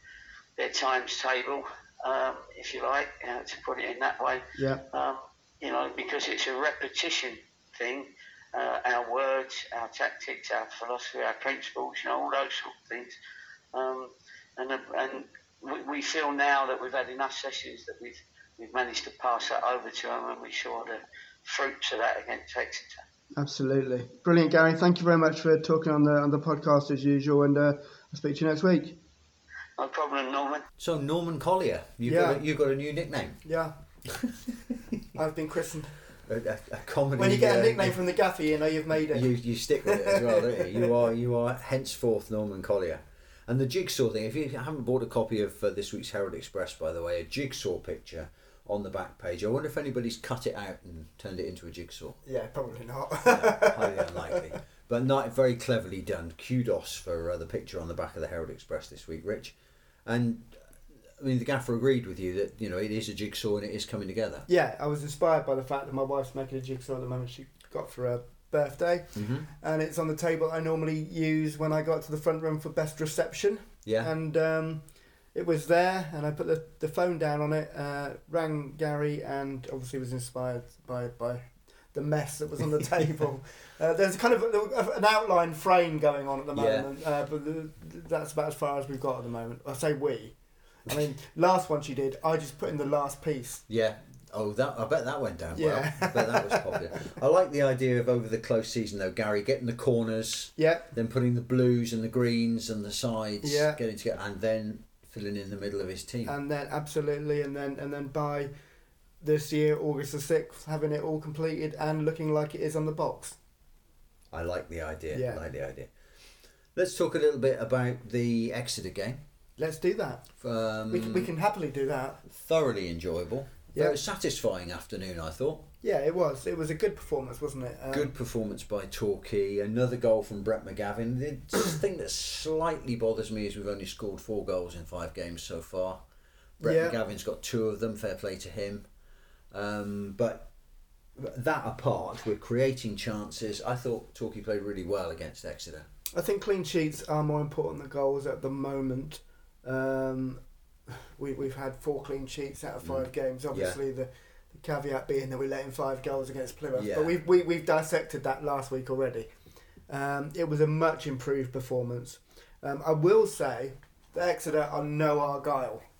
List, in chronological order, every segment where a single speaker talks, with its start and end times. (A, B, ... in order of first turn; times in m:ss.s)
0:00.6-0:13.1 A
0:04.6-0:04.8 B
0:13.7-0:23.0 A
0:23.4-0:29.0 B
0:29.8-0:30.6 A
0:30.8-0:33.4 C
0:32.0-0:32.4 B
0:33.4-0:33.8 B
0:34.1-0:34.9 C
0:35.1-0:35.9 B
0:36.2-0:38.0 C
0:37.2-0:40.9 B
0:39.1-0:52.2 C
0:52.2-0:54.4 B
0:53.2-1:00.6 C
1:01.2-1:04.5 C
1:04.5-1:33.6 B
1:09.1-1:09.5 C
1:13.8-1:14.1 C
1:26.5-1:26.9 C
1:33.7-1:46.3 C
1:35.5-1:37.1 B
1:40.6-1:40.9 B
1:43.4-1:43.8 B
1:46.2-1:48.5 B
1:49.2-1:53.4 B
1:54.3-1:55.9 C
1:55.1-1:55.4 B
1:56.7-1:59.2 C
1:59.6-2:00.3 B
2:00.4-2:01.3 C
2:00.9-2:02.2 B
2:02.3-2:05.7 C
2:03.7-2:04.0 B
2:05.8-2:08.1 B
2:07.9-2:16.0 C
2:16.6-2:18.9 C
2:16.6-2:17.0 B
2:19.5-2:20.5 C
2:21.2-2:25.9 C
2:26.1-2:39.3 B
2:32.8-2:33.8 C
2:36.7-2:37.2 C
2:39.9-2:45.9 B